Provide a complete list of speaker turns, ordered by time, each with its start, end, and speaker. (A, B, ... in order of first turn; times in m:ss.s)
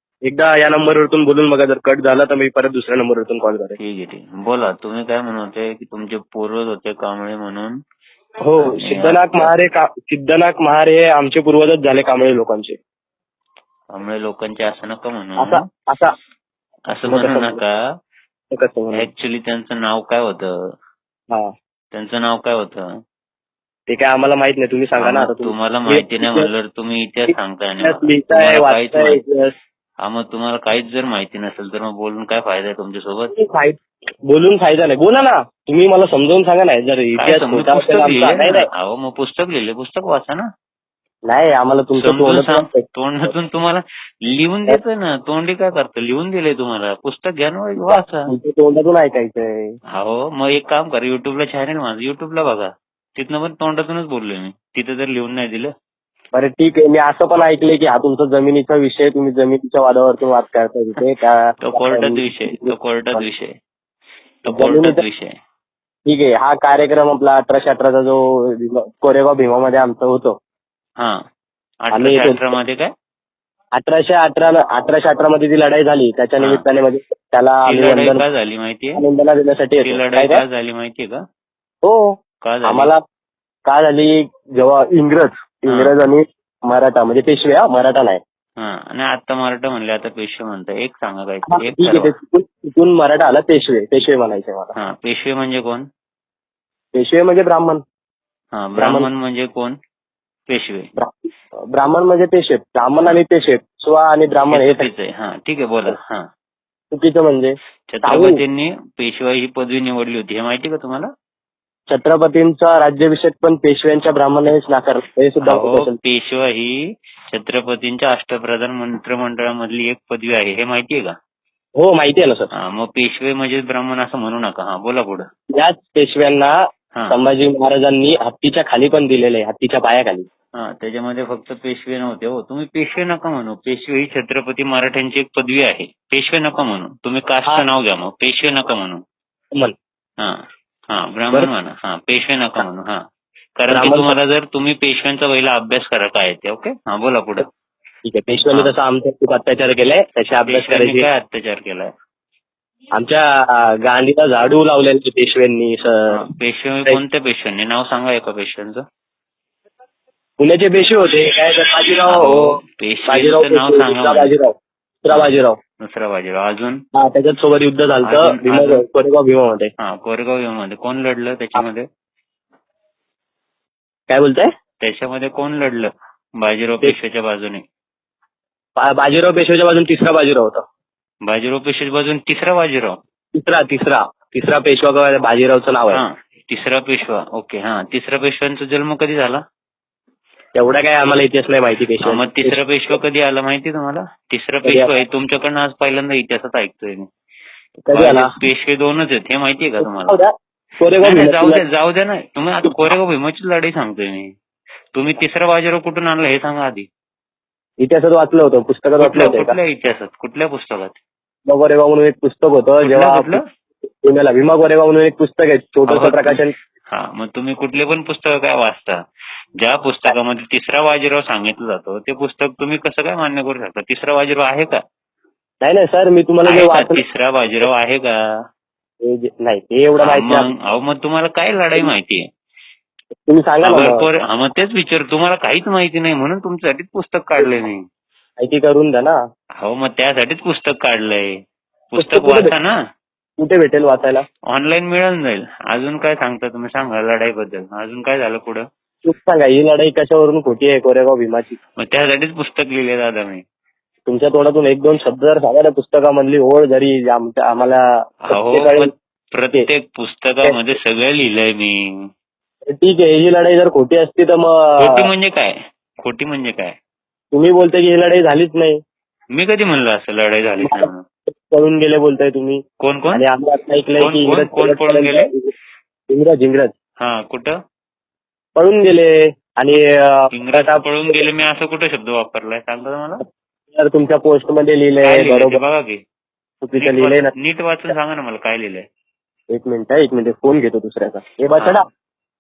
0:00.3-0:03.8 A
0:03.8-0:07.7 B
0:08.4-0:12.8 A
0:08.7-0:09.5 B
0:13.9-0:15.6 B
0:15.4-0:16.1 A
0:16.9-0:17.7 B
0:17.1-0:17.6 A
0:18.5-0:19.1 A
0:19.0-0:20.5 B
0:21.9-0:22.9 B
0:23.9-0:26.5 A
0:25.0-0:29.2 B
0:27.3-0:29.5 A
0:30.0-0:33.3 B
0:33.4-0:33.8 A
0:34.3-0:38.7 A
0:37.2-0:40.4 B
0:41.3-0:43.3 A
0:42.0-0:48.3 B
0:47.9-0:49.7 A
0:49.9-0:55.7 B
0:56.3-1:03.3 A
1:01.6-1:03.5 B
1:04.4-1:05.3 B
1:04.5-1:05.0 A
1:06.1-1:10.4 A
1:11.8-1:12.9 B
1:11.9-1:12.4 A
1:13.8-1:18.2 A
1:17.7-1:19.0 B
1:19.0-1:20.4 A
1:19.8-1:21.2 B
1:21.8-1:23.0 A
1:22.4-1:22.9 B
1:23.7-1:28.2 A
1:28.6-1:32.1 B
1:31.5-1:34.7 A
1:34.8-1:35.9 B
1:36.9-1:37.8 A
1:38.5-1:39.8 B
1:38.8-1:39.1 A
1:40.5-1:40.9 B
1:41.0-1:44.9 A
1:44.5-1:46.3 B
1:46.9-1:48.4 A
1:47.9-1:51.1 B
1:51.9-1:56.0 A
1:55.4-1:56.8 B
1:57.3-2:01.2 B
2:01.8-2:02.5 A
2:02.6-2:05.2 B
2:05.5-2:06.6 A
2:07.1-2:10.3 A
2:10.6-2:19.0 B
2:20.2-2:23.0 B
2:23.6-2:27.5 B
2:23.7-2:24.2 A
2:28.0-2:31.1 A
2:30.5-2:31.9 B
2:33.0-2:36.2 A
2:36.1-2:38.8 B
2:40.4-2:45.6 A
2:42.1-2:44.3 B
2:45.1-2:46.8 B
2:46.9-2:49.7 A
2:48.0-2:48.8 B
2:49.8-2:51.9 B
2:54.1-2:54.5 A
2:54.8-2:57.6 B
2:58.8-3:00.6 A
3:01.2-3:03.0 B
3:03.4-3:06.0 A
3:05.9-3:09.4 B
3:10.6-3:12.6 A
3:12.0-3:17.1 B
3:14.6-3:14.9 A
3:17.8-3:18.3 A
3:17.9-3:20.2 B
3:19.8-3:21.6 A
3:21.0-3:24.3 B
3:24.9-3:26.9 B
3:27.8-3:29.5 A
3:29.0-3:31.0 B
3:31.5-3:33.4 A
3:32.8-3:33.4 B
3:34.0-3:36.5 A
3:35.9-3:39.0 B
3:39.6-3:44.8 B
3:45.6-3:47.0 A
3:46.4-3:48.1 B
3:49.0-3:50.5 A
3:50.0-3:52.2 B
3:53.3-3:54.1 A
3:53.6-3:57.8 B
3:58.4-3:59.2 A
3:59.6-4:01.4 B
4:01.9-4:02.7 B
4:02.0-4:02.5 A
4:03.4-4:04.2 A
4:04.5-4:08.7 B
4:09.0-4:11.6 A
4:11.8-4:13.4 B
4:14.1-4:18.9 A
4:18.3-4:22.1 B
4:22.7-4:25.1 A
4:24.8-4:26.7 B
4:27.3-4:28.8 A
4:29.4-4:31.0 B
4:30.6-4:30.9 A
4:31.5-4:32.6 A
4:32.8-4:33.2 B
4:33.1-4:35.5 A
4:34.0-4:35.3 B
4:36.1-4:36.8 A
4:37.0-4:37.6 B
4:38.6-4:41.2 A
4:40.3-4:43.2 B
4:43.7-4:45.6 A
4:45.0-4:46.0 B
4:46.6-4:47.3 A
4:46.8-4:48.8 B
4:49.5-4:51.9 A
4:51.6-4:51.8 B